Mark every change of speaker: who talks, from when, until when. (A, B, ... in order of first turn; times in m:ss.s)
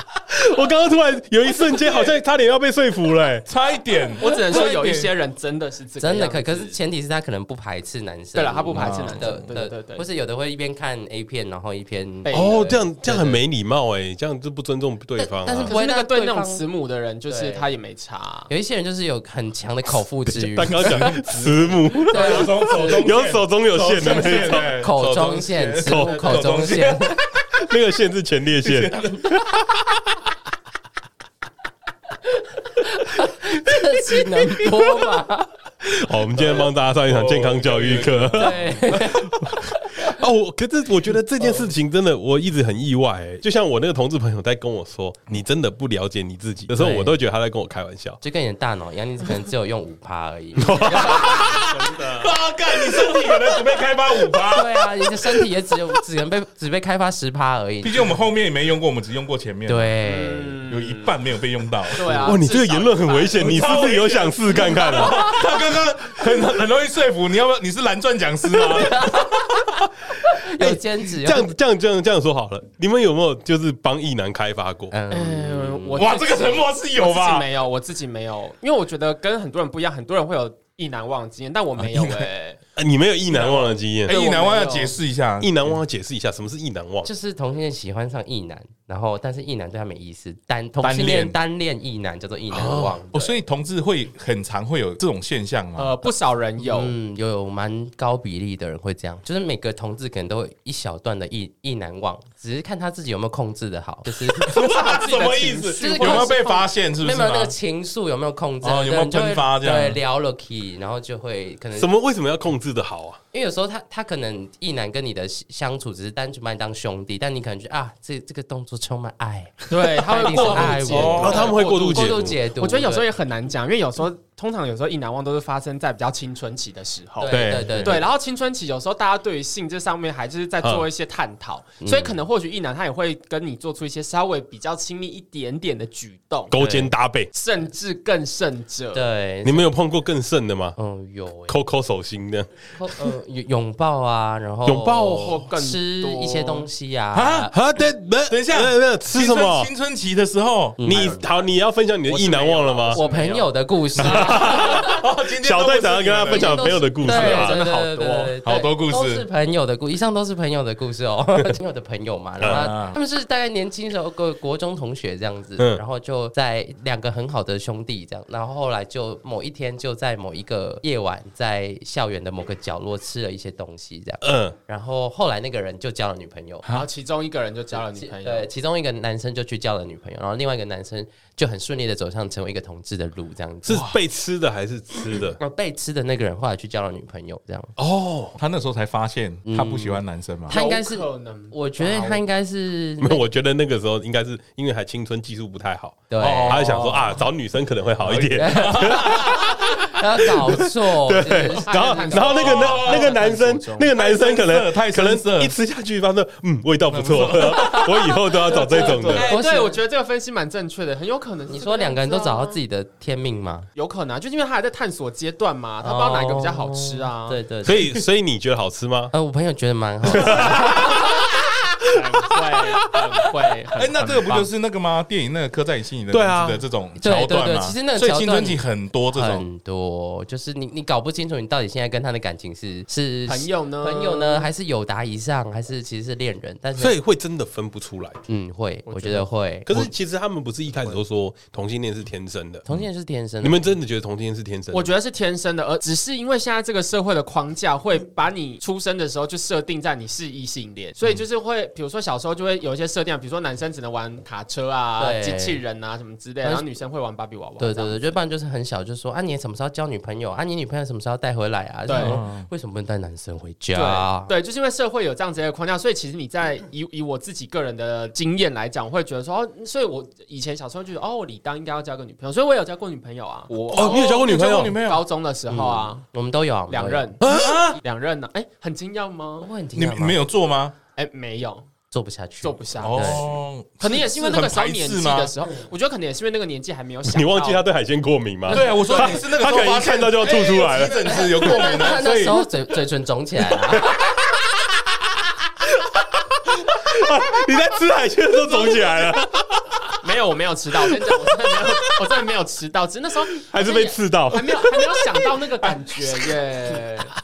0:00.3-0:03.5 A
0:03.4-0:05.1 B
0:04.2-0:06.8 C
0:06.0-0:12.4 D
0:08.3-0:10.0 C
0:08.7-0:09.4 B
0:12.2-0:12.8 C
0:12.3-0:15.7 A
0:13.0-0:13.4 D
0:15.2-0:16.6 D
0:15.6-0:18.5 C
0:17.2-0:17.7 D
0:18.5-0:21.1 D
0:20.3-0:24.7 A
0:20.7-0:27.1 B
0:22.1-0:23.1 D
0:22.2-0:22.5 C
0:24.0-0:27.2 D
0:25.8-0:26.5 A
0:27.6-0:29.6 A
0:28.6-0:29.3 B
0:32.8-0:35.5 D
0:35.8-0:38.6 A
0:36.4-0:39.5 B
0:38.4-0:39.5 D
0:40.0-0:48.2 A
0:46.7-0:47.2 D
0:48.2-0:51.4 D
0:50.6-0:51.3 A
0:50.7-0:52.3 C
0:51.2-0:55.4 B
0:54.5-0:58.1 D
0:57.8-0:59.9 B
0:59.7-1:00.6 D
1:00.0-1:01.2 C
1:00.7-1:02.4 B
1:01.9-1:04.0 C
1:02.2-1:05.4 A
1:03.4-1:10.1 B
1:04.6-1:05.2 C
1:08.6-1:09.4 D
1:10.2-1:11.5 D
1:10.6-1:14.9 A
1:14.9-1:16.1 D
1:15.1-1:22.6 C
1:15.9-1:17.4 B
1:21.8-1:22.3 B
1:22.8-1:24.1 A
1:23.3-1:25.0 C
1:24.0-1:25.8 B
1:25.4-1:27.1 A
1:27.0-1:33.4 D
1:30.8-1:31.4 B
1:32.5-1:33.0 A
1:33.1-1:36.1 B
1:35.8-1:36.9 C
1:36.6-1:44.7 D
1:44.5-1:47.5 B
1:44.5-1:46.4 C
1:45.8-1:51.9 D
1:48.6-1:50.0 B
1:51.8-1:53.2 A
1:53.3-2:03.0 D
1:59.7-2:16.6 C
2:00.2-2:01.5 B
2:01.2-2:02.4 A
2:07.2-2:08.1 D
2:07.3-2:07.6 A
2:07.3-2:08.0 B
2:10.6-2:10.9 A
2:11.8-2:12.2 D
2:16.5-2:17.3 A
2:16.6-2:16.9 D
2:17.3-2:19.1 C
2:18.9-2:19.7 D
2:19.4-2:20.8 A
2:20.8-2:21.6 D
2:21.5-2:23.1 A
2:22.7-2:27.5 D
2:24.6-2:25.4 A
2:25.1-2:26.7 C
2:27.1-2:27.5 B
2:27.5-2:29.7 A
2:28.3-2:30.8 B
2:30.8-2:31.2 D
2:30.8-2:33.0 A
2:30.9-2:31.3 C
2:32.1-2:33.5 C
2:32.9-2:35.0 D
2:34.0-2:36.9 B
2:34.0-2:37.6 A
2:36.3-2:56.6 D
2:36.9-2:38.4 C
2:38.4-2:39.2 B
2:42.4-2:42.7 A
2:42.4-2:43.0 B
2:45.6-2:45.8 A
2:54.2-2:54.6 A
2:56.7-2:58.5 C
2:57.8-3:03.9 D
3:03.6-3:05.4 A
3:03.7-3:04.0 B
3:05.4-3:07.7 D
3:07.8-3:08.4 A
3:08.4-3:10.6 B
3:09.4-3:13.2 D
3:10.5-3:12.2 C
3:13.0-3:29.3 A
3:16.1-3:16.7 D
3:16.2-3:17.2 B
3:18.0-3:19.6 B
3:18.4-3:22.5 D
3:21.4-3:24.0 C
3:22.4-3:23.1 B
3:24.0-3:25.6 B
3:26.9-3:29.4 B
3:27.6-3:27.8 D
3:28.6-3:29.8 D
3:28.7-3:32.6 C
3:31.5-3:33.7 D
3:33.7-3:37.4 C
3:35.8-3:37.9 D
3:37.6-3:39.1 A
3:39.1-3:41.2 D
3:40.0-3:42.9 A
3:41.9-3:44.5 C
3:43.8-3:49.5 B
3:46.1-3:46.6 A
3:47.0-3:57.0 D
3:53.3-3:54.5 C
3:56.8-3:58.2 A
3:58.3-3:59.9 D
3:58.9-3:59.2 C
3:59.6-4:02.6 A
4:02.6-4:03.7 D
4:03.4-4:04.9 A
4:04.7-4:18.1 C
4:15.0-4:15.6 D
4:17.6-4:24.3 D
4:21.9-4:22.2 C
4:22.0-4:22.5 B
4:23.7-4:34.1 C
4:33.7-4:35.0 B
4:33.7-4:34.8 A
4:34.7-4:36.0 C
4:35.5-4:37.1 D
4:36.7-4:39.5 C
4:37.2-4:37.6 A
4:37.2-4:37.8 B
4:39.4-4:40.2 D
4:39.7-4:40.8 B
4:41.0-4:41.7 C
4:41.9-4:43.2 D
4:42.4-4:47.6 C
4:42.8-4:45.3 B
4:47.0-4:52.1 A
4:48.5-4:52.4 B
4:48.5-4:49.2 C
4:51.0-4:54.0 D
4:53.7-4:54.8 A
4:55.6-5:00.0 A
5:00.0-5:07.1 C
5:00.8-5:02.2 A
5:03.4-5:05.4 A